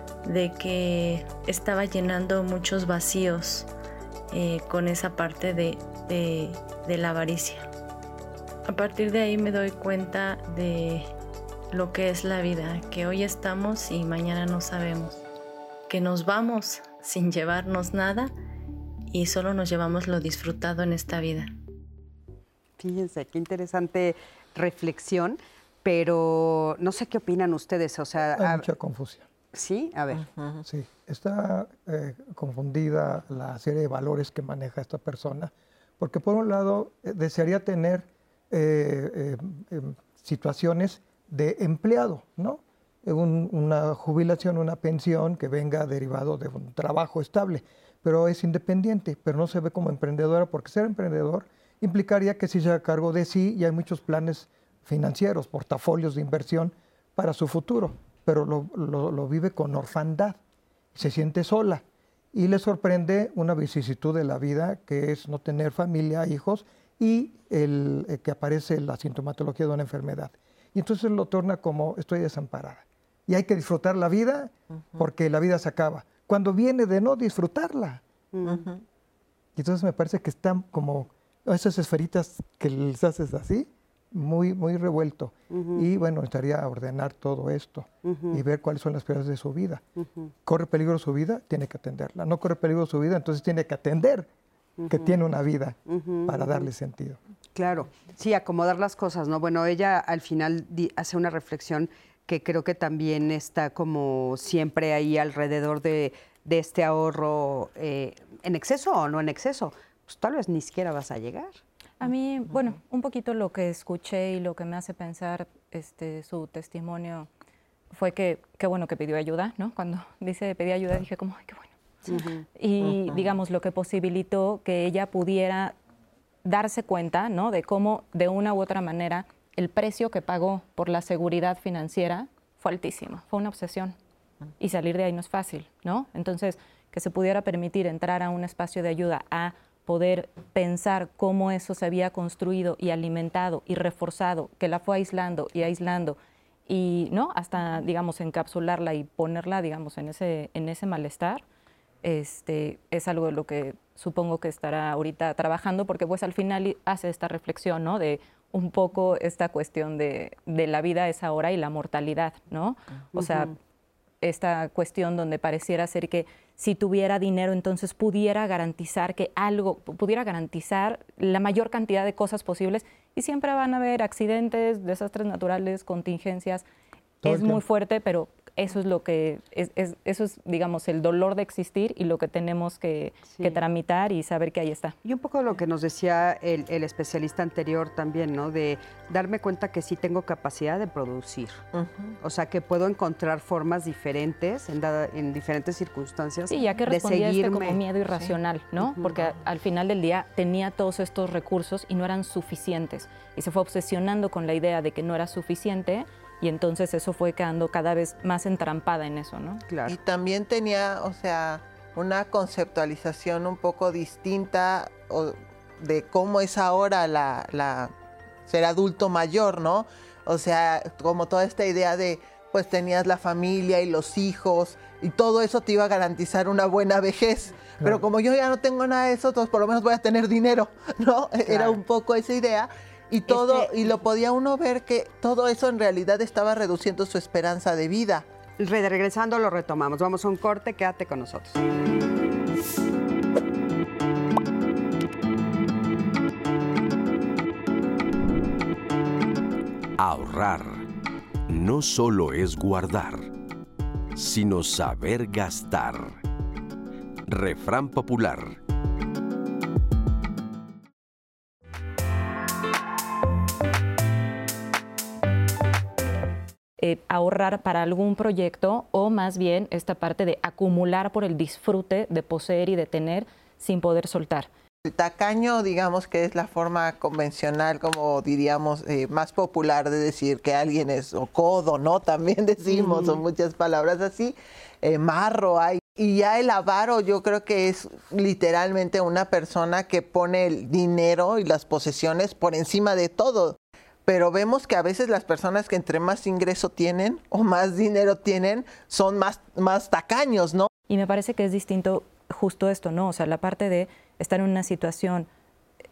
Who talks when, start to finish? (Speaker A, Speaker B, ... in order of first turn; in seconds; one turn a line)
Speaker A: 0.2-3.7
Speaker A: 4.3-7.7
Speaker A: 8.7-11.1
Speaker A: 11.7-15.2
Speaker A: 15.9-18.3
Speaker A: 19.1-21.5
Speaker B: 22.8-28.6
Speaker C: 28.4-29.3
Speaker B: 29.5-30.3
Speaker D: 30.1-30.6
Speaker C: 30.6-60.4
Speaker C: 60.9-61.8
Speaker C: 62.3-78.0
Speaker B: 78.3-78.7
Speaker D: 78.4-78.8
Speaker C: 79.5-89.8
Speaker B: 85.5-85.9
Speaker B: 88.0-88.4
Speaker B: 90.0-90.3
Speaker C: 90.4-94.3
Speaker B: 94.8-95.2
Speaker C: 94.9-97.2
Speaker B: 95.9-96.7
Speaker B: 97.5-111.6
Speaker E: 112.0-117.3
Speaker E: 117.9-121.7
Speaker B: 122.0-122.4
Speaker E: 122.5-125.7
Speaker D: 122.9-123.2
Speaker E: 126.4-133.9
Speaker E: 134.6-151.4
Speaker E: 152.0-163.5
Speaker B: 163.1-163.5
Speaker E: 164.2-176.6
Speaker E: 177.2-184.9
Speaker C: 177.2-177.6
Speaker B: 183.3-183.6
Speaker B: 185.0-191.6
Speaker D: 191.7-192.2
Speaker B: 192.2-197.8
Speaker E: 196.5-209.6
Speaker B: 198.8-199.2
Speaker B: 209.7-210.0
Speaker D: 209.9-217.9
Speaker D: 218.5-238.3
Speaker B: 231.4-231.8
Speaker B: 233.3-233.9
Speaker B: 238.6-241.6
Speaker F: 250.0-250.8
Speaker F: 251.5-253.3
Speaker F: 254.1-256.2
Speaker F: 257.3-258.6
Speaker E: 266.8-274.5
Speaker D: 274.8-300.7
Speaker B: 282.7-283.2
Speaker E: 300.9-305.3